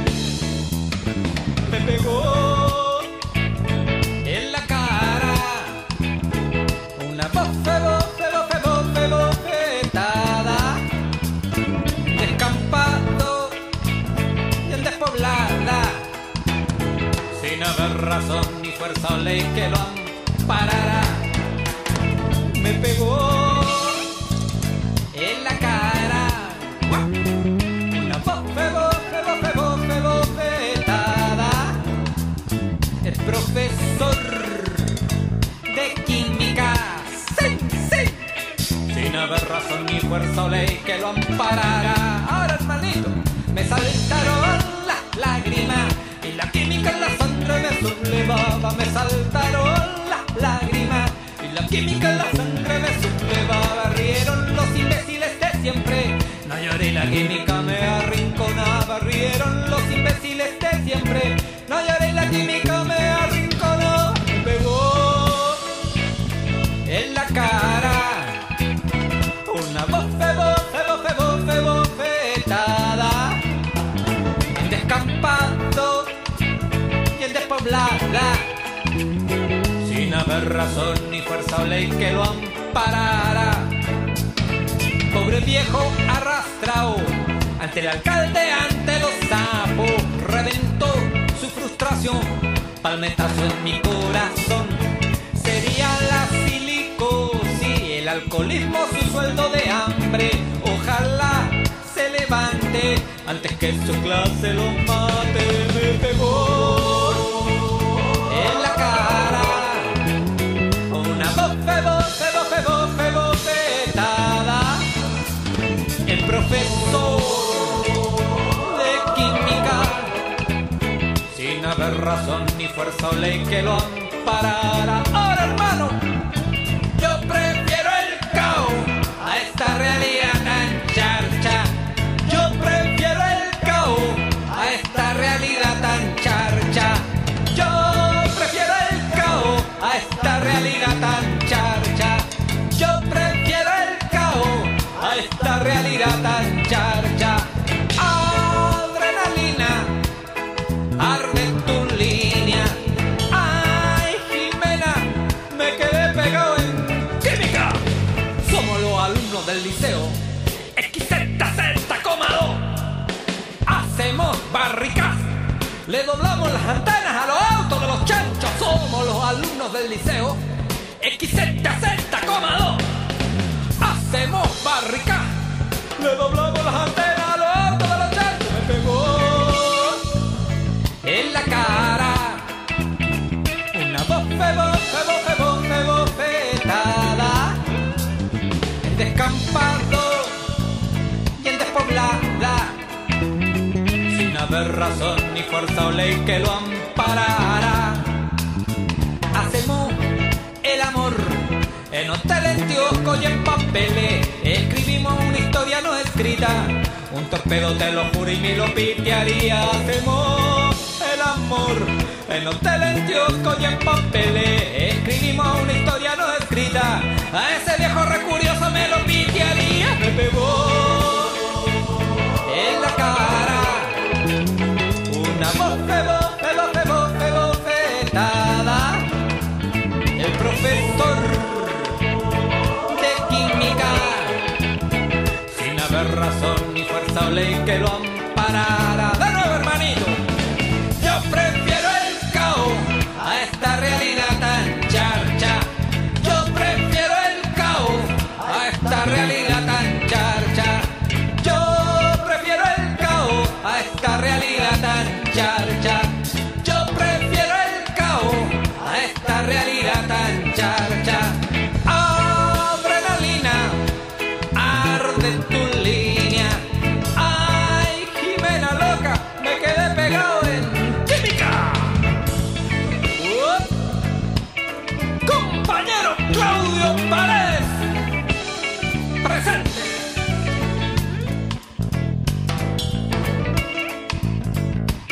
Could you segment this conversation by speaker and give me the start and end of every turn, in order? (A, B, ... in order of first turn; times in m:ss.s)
0:01.6-0:03.1 A
0:04.2-0:05.8 A
0:07.0-0:10.9 A
0:12.1-0:13.6 A
0:14.6-0:16.1 A
0:17.3-0:21.3 A
0:22.5-0:24.1 A
0:25.1-0:27.1 A
0:27.9-0:31.8 A
0:33.0-0:34.9 A
0:35.6-0:38.3 A
0:38.9-1:05.6 A
1:06.8-1:08.5 A
1:09.4-1:13.4 A
1:14.5-1:16.1 A
1:17.1-1:18.5 A
1:19.8-1:23.8 A
1:25.1-1:47.4 A
1:48.3-1:50.0 A
1:50.9-1:54.9 A
1:56.1-2:00.2 A
2:01.3-2:06.0 A
2:06.9-2:30.0 A
2:31.0-2:37.8 A
2:38.4-2:40.2 A
2:40.8-2:42.7 A
2:43.7-2:45.3 A
2:45.8-2:50.4 A
2:51.0-2:52.9 A
2:53.8-2:55.3 A
2:56.0-3:00.0 A
3:01.0-3:02.6 A
3:03.7-3:07.6 A
3:08.8-3:10.4 A
3:11.4-3:12.8 A
3:14.1-3:18.3 A
3:19.3-3:20.0 A
3:20.6-3:41.6 A
3:42.4-3:44.0 A
3:45.1-3:49.1 A
3:50.2-3:52.0 A
3:52.9-3:54.4 A
3:55.5-4:00.2 A
4:00.9-4:23.9 A
4:24.5-4:32.2 A
4:33.1-4:33.8 A
4:35.2-4:38.0 A
4:39.2-4:40.1 A